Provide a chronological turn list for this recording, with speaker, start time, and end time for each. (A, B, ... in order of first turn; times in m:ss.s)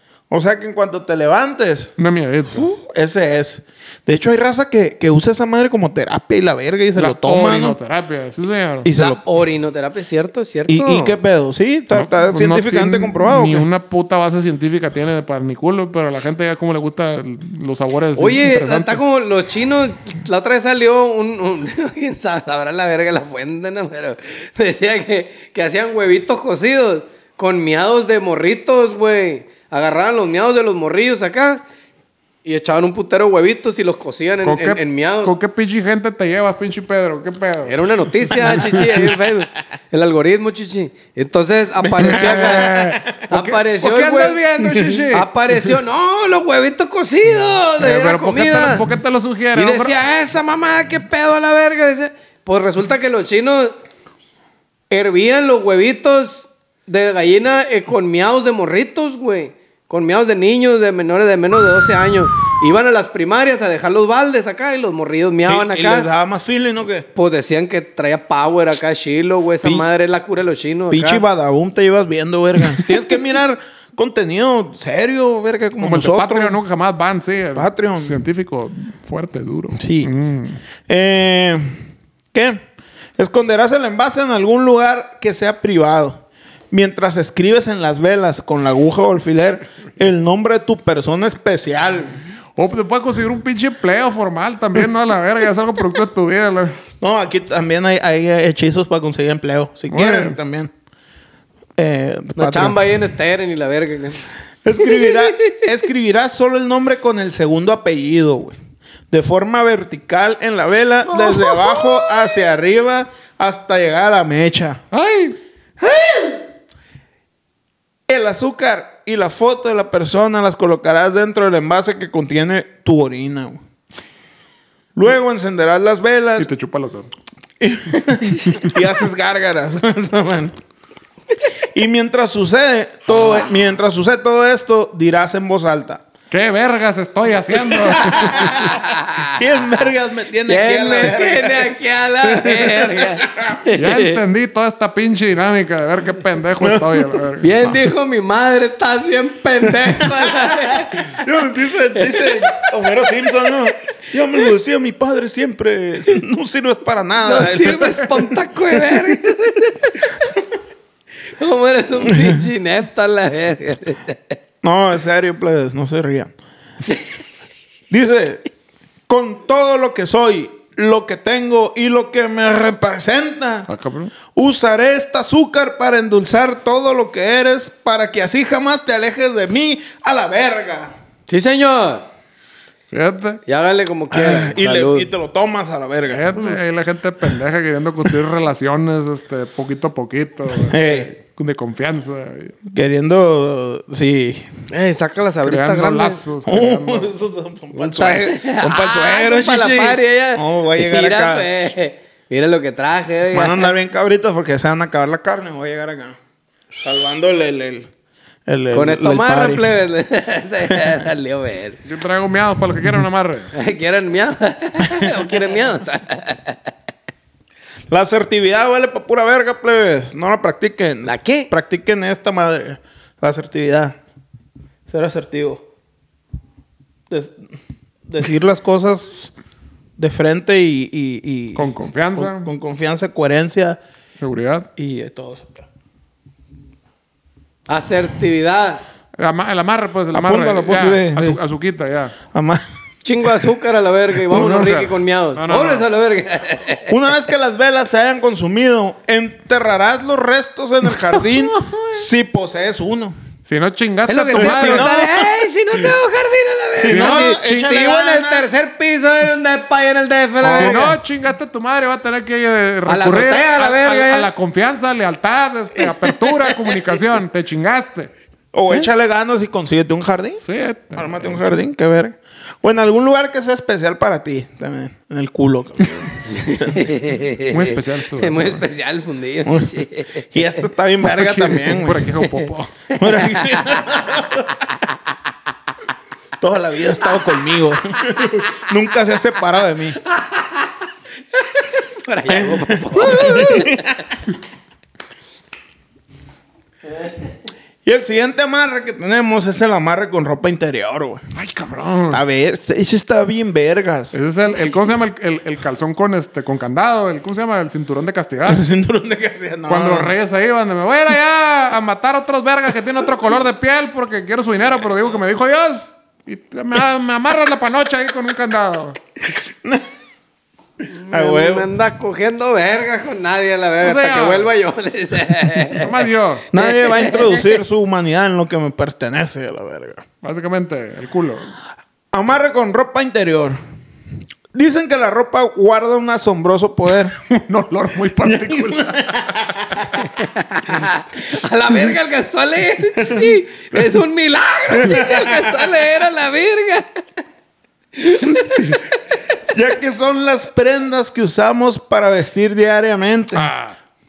0:00.3-0:01.9 A
0:02.0-0:02.7 B
0:02.5-0:07.8 A
0:07.0-0:08.9 B
0:08.8-0:09.2 A
0:08.9-0:11.2 C
0:10.7-0:13.7 A
0:11.9-0:19.0 B
0:18.2-0:31.6 C
0:32.4-0:35.3 C
0:34.4-0:37.8 B
0:37.6-0:42.7 C
0:38.3-0:38.9 B
0:38.4-0:39.0 A
0:41.8-0:43.2 A
0:42.0-0:45.3 B
0:43.3-0:44.5 C
0:45.1-0:48.9 C
0:47.8-0:49.9 B
0:49.5-0:53.7 C
0:54.9-1:06.1 C
1:05.4-1:07.1 A
1:07.1-1:11.2 C
1:10.9-1:16.6 A
1:15.8-1:20.6 B
1:17.6-1:18.2 A
1:19.8-1:20.1 A
1:20.9-1:22.6 A
1:23.2-1:32.2 A
1:32.6-1:36.8 B
1:37.0-1:40.7 A
1:39.9-1:40.4 B
1:41.8-1:42.8 A
1:42.4-1:44.2 C
1:44.6-1:48.6 A
1:44.8-1:45.6 C
1:49.1-1:54.8 A
1:51.1-1:52.3 C
1:54.9-1:55.4 B
1:55.8-1:56.4 A
1:58.1-2:03.6 A
2:05.0-2:06.5 A
2:06.4-2:07.1 B
2:07.6-2:10.6 A
2:11.7-2:16.0 A
2:16.3-2:18.7 B
2:17.7-2:23.6 A
2:18.8-2:19.3 C
2:20.5-2:24.2 C
2:23.7-2:27.7 B
2:26.6-2:27.2 A
2:27.4-2:31.2 C
2:29.9-2:39.0 A
2:32.0-2:32.5 C
2:37.2-2:40.0 C
2:41.4-2:44.4 C
2:42.0-2:42.4 A
2:44.6-2:46.3 A
2:47.9-2:48.4 A
2:49.1-2:53.7 A
2:53.7-2:54.1 B
2:54.3-3:00.9 A
3:01.3-3:02.1 C
3:02.9-3:03.4 B
3:03.4-3:05.0 C
3:04.1-3:06.2 A
3:06.1-3:12.6 B
3:10.6-3:11.1 A
3:12.7-3:14.5 A
3:14.7-3:16.2 C
3:15.4-3:17.1 B
3:16.4-3:21.5 A
3:17.7-3:23.7 C
3:23.3-3:26.2 A
3:26.8-3:27.9 A
3:28.5-3:29.6 A
3:28.7-3:31.8 C
3:31.8-3:33.5 B
3:33.5-3:36.7 C
3:37.9-3:44.0 A
3:41.0-3:41.5 C
3:44.9-3:45.6 A
3:47.1-3:47.4 A
3:48.1-3:49.3 A
3:50.0-3:53.8 A
3:51.6-3:52.5 B
3:54.2-3:54.7 B
3:54.8-3:55.7 A
3:57.7-3:58.8 C
3:59.2-4:02.1 B
4:00.1-4:01.4 A
4:02.3-4:02.6 A
4:03.0-4:06.9 C
4:04.3-4:05.8 B
4:04.3-4:04.6 A
4:06.8-4:13.1 A
4:13.4-4:14.9 B
4:14.1-4:20.9 C
4:14.3-4:15.8 A
4:16.8-4:18.5 A
4:16.9-4:17.3 B
4:20.4-4:21.0 A
4:20.5-4:28.1 B
4:22.9-4:24.3 C
4:28.5-4:30.4 A
4:30.4-4:31.6 B
4:30.9-4:36.9 A
4:36.3-4:40.3 C
4:37.4-4:38.6 B
4:39.4-4:42.1 A
4:41.2-4:42.7 B
4:42.9-4:43.9 C
4:43.0-4:44.5 A
4:46.4-4:50.0 A
4:50.1-4:50.7 C
4:51.4-4:54.0 C
4:52.3-4:53.9 A
4:57.8-5:01.2 A
5:01.3-5:02.2 B
5:02.1-5:04.1 A
5:04.1-5:08.6 B
5:08.5-5:10.1 A
5:09.7-5:19.0 B
5:19.4-5:19.8 A
5:21.0-5:25.9 C
5:21.1-5:21.7 A
5:23.8-5:24.5 B
5:25.7-5:26.4 B
5:26.5-5:30.0 A
5:26.6-5:27.5 C
5:30.2-5:31.5 B
5:32.1-5:33.6 A
5:34.5-5:37.2 A
5:37.3-5:39.9 B
5:38.2-5:39.9 A
5:40.2-5:46.9 C
5:43.0-5:43.4 A
5:44.7-5:45.7 A
5:48.0-5:48.8 C
5:49.5-5:53.5 A
5:53.3-5:53.8 B